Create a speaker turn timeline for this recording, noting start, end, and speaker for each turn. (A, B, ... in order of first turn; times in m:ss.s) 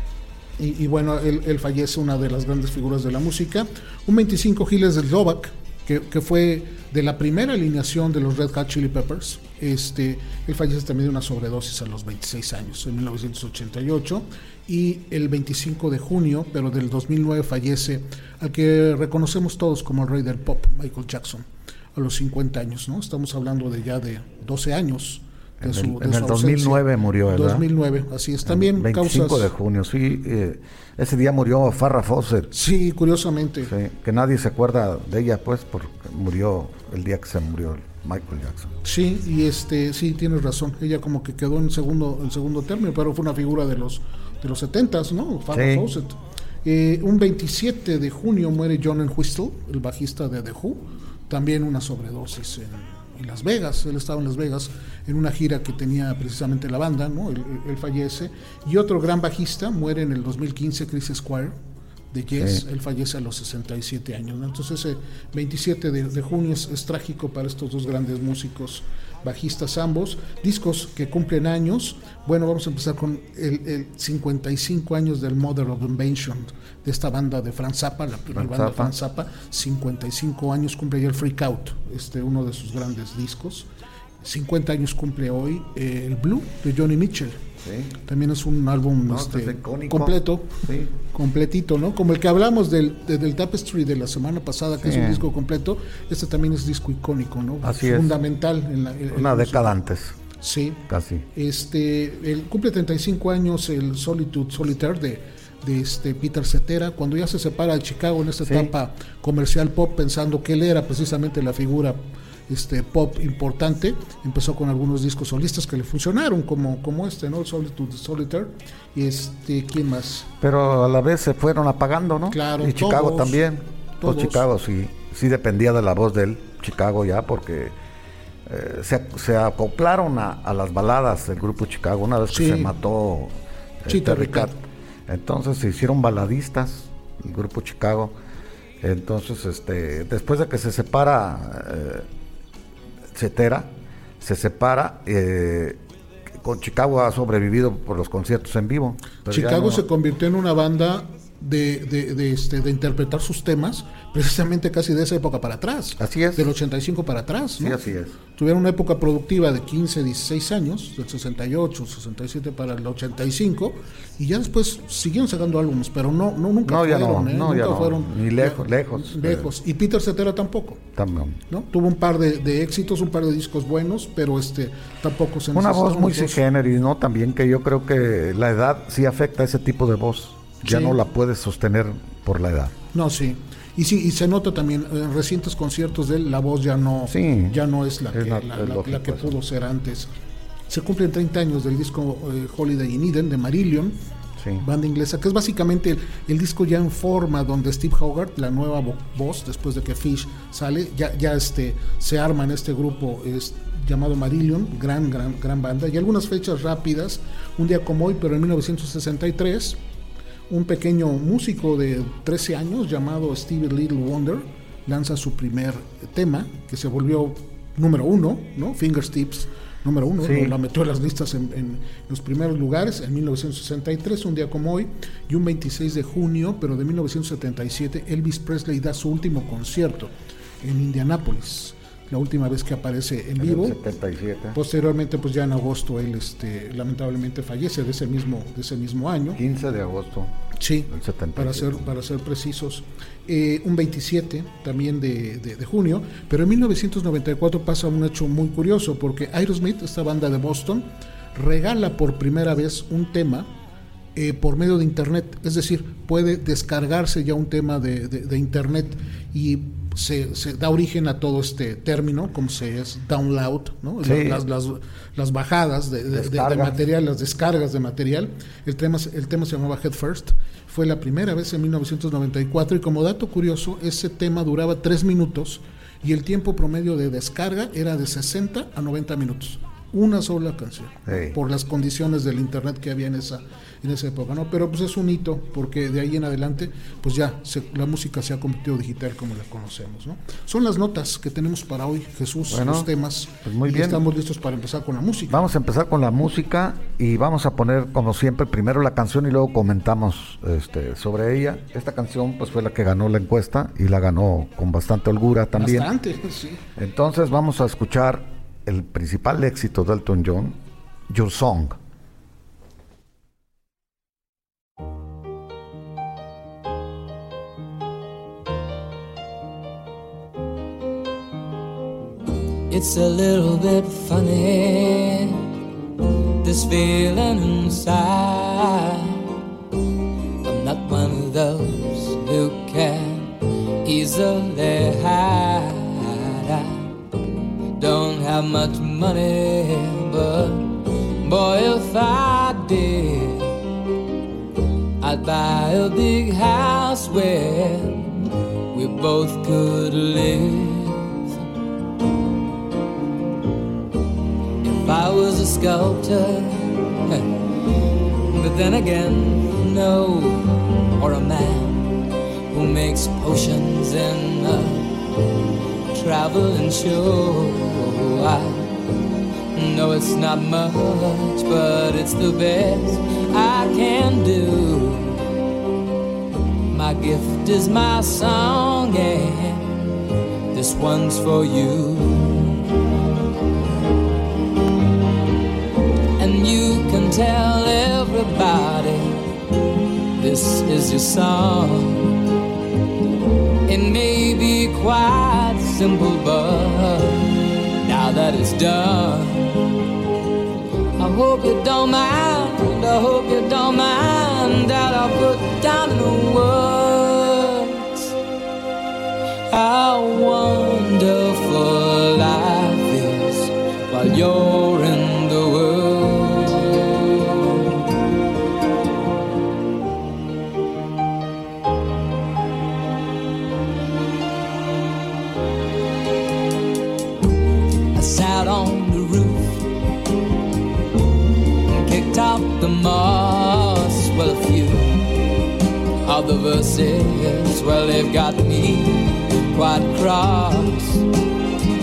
0:00.6-0:29.5 A
0:25.6-0:27.7 B
0:28.4-0:32.5 B
0:32.5-0:33.7 A
0:33.6-0:38.7 B
0:38.8-1:01.5 A
0:45.5-0:45.8 B
1:02.1-1:23.7 A
1:18.3-1:19.0 B
1:24.2-1:27.4 A
1:27.6-1:27.9 B
1:28.0-1:39.8 A
1:29.0-1:30.9 B
1:34.8-1:35.2 B
1:37.6-1:38.2 B
1:39.1-1:40.2 B
1:40.4-1:40.8 A
1:40.9-1:41.2 B
1:41.3-2:00.3 A
1:48.4-1:48.7 B
2:00.4-2:07.8 B
2:02.3-2:03.5 A
2:04.0-2:04.4 A
2:08.5-2:18.1 B
2:12.3-2:12.7 A
2:13.9-2:14.5 A
2:18.8-2:22.1 B
2:23.1-2:25.8 B
2:26.4-2:29.8 B
2:29.3-2:37.8 A
2:36.0-2:36.5 B
2:37.6-2:38.2 B
2:38.4-2:50.8 A
2:46.6-2:49.5 B
2:51.0-2:51.4 B
2:51.5-2:56.4 A
2:55.5-3:02.8 B
3:00.6-3:01.0 A
3:02.9-3:10.1 A
3:07.1-3:07.6 B
3:08.1-3:09.4 B
3:10.7-3:14.0 A
3:14.6-3:29.8 A
3:30.5-3:53.8 A
3:40.2-3:40.5 B
3:53.4-3:54.6 B
3:54.5-3:59.4 A
3:59.4-4:00.3 B
4:00.6-4:13.5 A
4:00.9-4:01.9 B
4:14.1-4:55.5 A
4:24.0-4:24.4 B
4:26.1-4:26.8 B
4:41.1-4:41.4 B
4:52.5-4:52.9 B
4:53.4-4:54.0 B
4:55.3-5:05.9 B
5:05.5-5:06.6 A
5:06.8-5:11.8 B
5:22.7-5:25.5 C
5:26.4-5:29.2 C
5:30.4-5:36.9 C
5:37.8-5:43.6 C
5:45.0-5:48.2 C
5:48.7-5:51.3 C
5:54.6-5:57.3 C
5:58.3-6:05.0 C
6:05.9-6:08.8 C
6:09.5-6:15.3 C
6:16.7-6:19.8 C
6:20.5-6:22.6 C
6:26.2-6:29.3 C
6:30.2-6:32.1 C
6:33.6-6:37.3 C
6:37.8-6:39.7 C
6:41.0-6:48.1 C
6:49.5-6:57.9 C
7:07.9-7:09.7 C
7:11.7-7:15.0 C
7:16.0-7:21.0 C